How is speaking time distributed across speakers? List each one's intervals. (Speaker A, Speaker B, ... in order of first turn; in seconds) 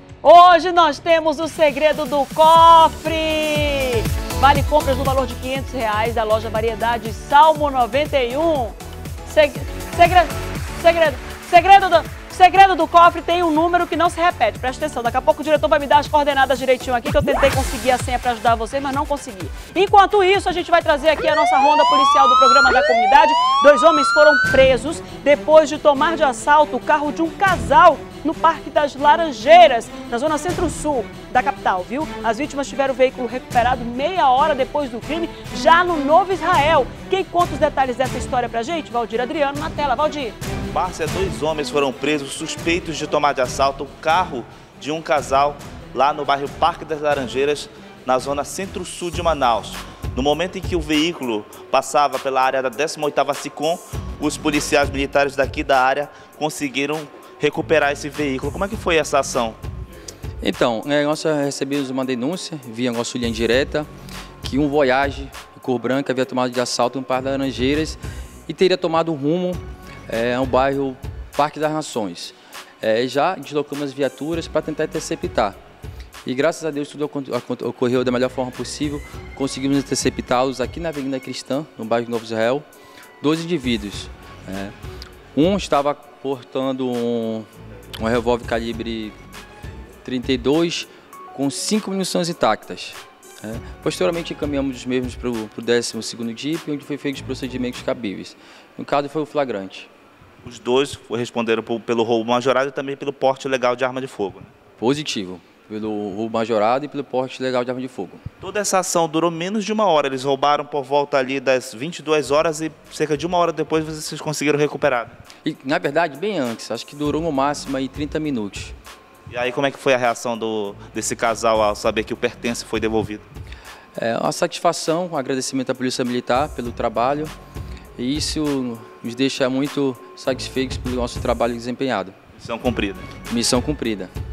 Speaker A: 0.2-40.4
Speaker B: 40.7-59.6, 100.4-104.5, 108.4-115.2, 119.3-123.2, 132.4-133.1
Speaker C: 60.4-63.9, 64.4-75.6, 76.2-82.6, 83.2-84.7, 85.3-87.5, 88.0-89.1, 90.0-99.9, 104.8-108.2, 115.4-118.7, 124.0-127.3, 128.0-132.2, 133.3-134.1